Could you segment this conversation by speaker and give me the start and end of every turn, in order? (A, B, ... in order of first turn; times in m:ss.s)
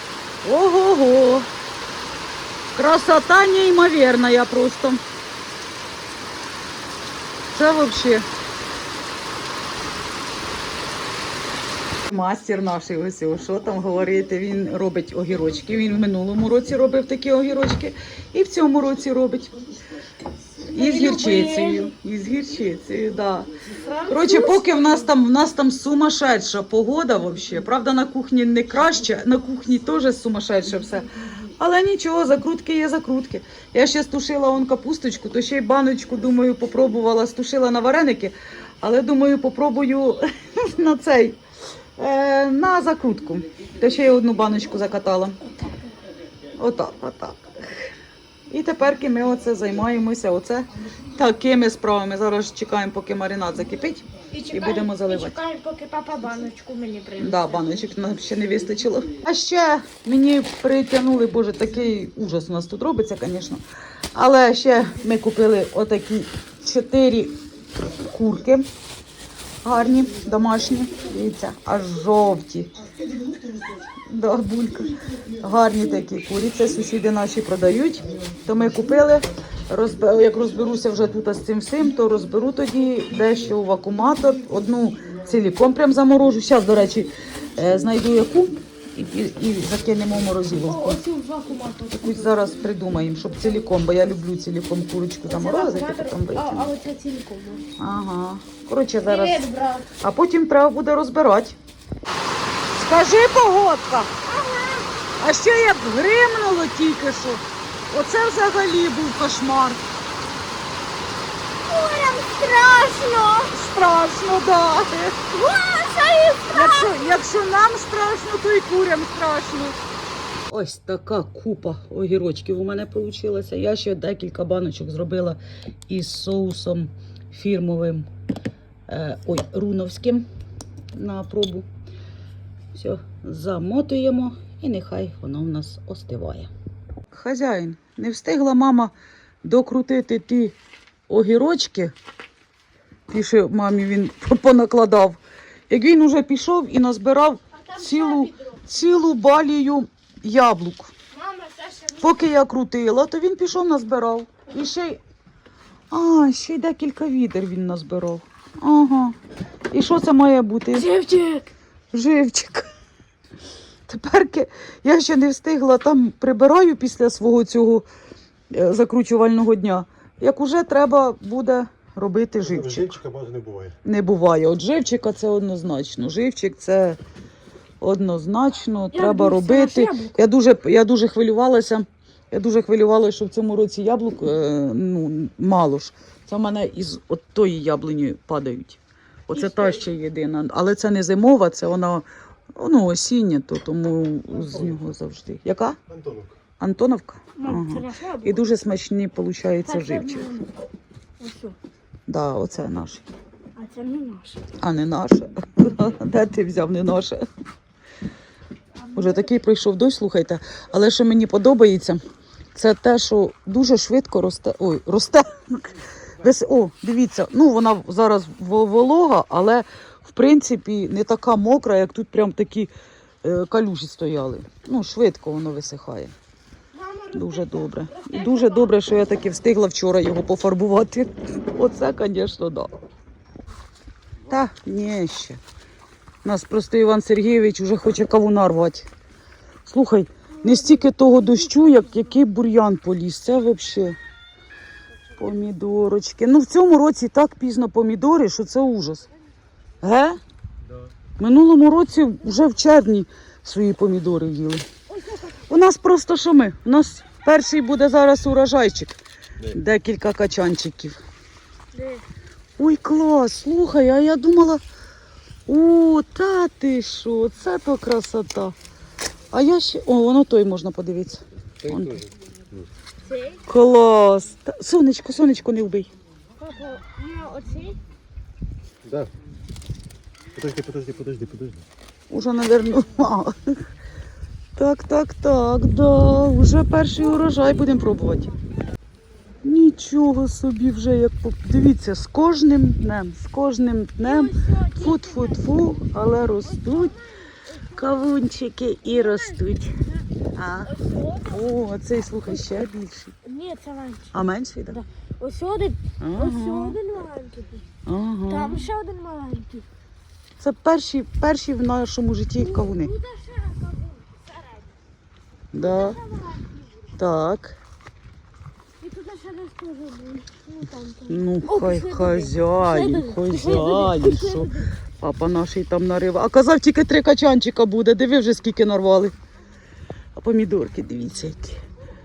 0:00.4-0:01.5 A
0:02.7-0:05.0 A
0:07.5-0:08.2 A
0:12.0-0:19.5 A
0:20.7-0:23.5 A
0:20.7-0:21.9 B
0:23.8-0:25.0 B
0:24.0-0:31.0 A
0:31.6-0:41.4 A
0:42.0-0:45.4 A
0:46.6-0:47.7 A
0:48.5-0:55.4 A
0:54.3-0:57.7 B
0:57.2-1:03.6 A
1:04.1-1:07.4 A
1:07.9-1:08.6 A
1:09.6-1:12.7 A
1:14.0-1:31.0 A
1:30.7-1:32.2 B
1:31.9-1:36.7 A
1:35.3-1:37.6 B
1:37.8-1:39.4 A
1:39.0-1:39.9 B
1:40.0-1:41.6 A
1:42.7-1:44.1 A
1:44.2-1:44.9 B
1:45.2-1:49.8 A
1:51.7-1:53.5 B
1:53.5-1:55.1 A
1:55.3-1:57.1 B
1:56.5-1:59.8 A
2:00.5-2:08.0 A
2:08.9-2:10.2 A
2:10.9-2:11.7 A
2:12.7-2:16.5 A
2:17.1-2:20.6 A
2:21.1-2:21.9 A
2:23.1-2:30.9 A
2:27.8-2:28.4 B
2:31.2-2:32.0 B
2:32.0-2:35.0 A
2:35.9-2:39.2 A
2:39.7-2:40.9 A
2:40.7-2:41.5 B
2:41.9-2:42.7 A
2:43.9-2:47.8 A
2:48.5-2:53.0 A
2:52.4-2:53.8 C
2:53.8-2:57.0 A
2:57.8-3:12.0 A
2:58.9-3:00.2 B
3:09.3-3:09.8 B
3:12.6-3:15.8 A
3:14.4-3:14.8 C
3:15.9-3:16.4 C
3:16.6-3:20.3 A
3:17.4-3:18.4 B
3:19.6-3:20.6 B
3:21.2-3:21.6 B
3:22.1-3:23.0 A
3:23.6-3:24.4 B
3:24.6-3:27.2 A
3:28.9-3:29.2 B
3:28.9-3:32.0 A
3:32.5-3:42.7 A
3:43.2-3:46.1 A
3:46.7-3:48.7 B
3:47.1-3:52.7 A
3:54.3-3:55.4 A
3:56.2-3:58.9 A
3:59.6-4:04.0 A
4:00.4-4:02.1 B
4:05.2-4:09.1 A
4:09.8-4:10.2 A
4:11.2-4:14.6 A
4:14.9-4:15.4 B
4:15.5-4:19.0 A
4:19.5-4:21.0 A
4:21.7-4:22.0 B
4:22.6-4:24.6 A
4:25.5-4:28.5 A
4:29.3-4:32.0 A
4:31.6-4:32.7 C
4:33.0-4:33.4 B
4:33.5-4:35.9 A
4:36.4-4:37.8 B
4:38.8-4:39.1 C
4:40.3-4:41.6 C
4:42.1-4:43.5 A
4:44.6-4:48.3 A
4:49.4-4:57.0 A
4:54.0-4:55.4 B
4:56.4-4:57.8 B
4:57.7-4:59.8 A
4:58.8-5:00.1 B
5:00.3-5:00.7 A
5:00.6-5:01.4 B
5:01.2-5:03.1 A
5:02.4-5:02.6 B
5:03.2-5:07.6 B
5:04.1-5:04.8 A
5:06.0-5:06.8 A
5:07.8-5:08.7 A
5:08.3-5:09.7 B
5:10.4-5:12.9 A
5:12.4-5:14.7 B
5:15.5-5:16.0 A
5:15.6-5:16.8 B
5:17.0-5:17.6 A
5:18.8-5:24.7 B
5:21.1-5:29.1 A
5:30.2-5:31.6 A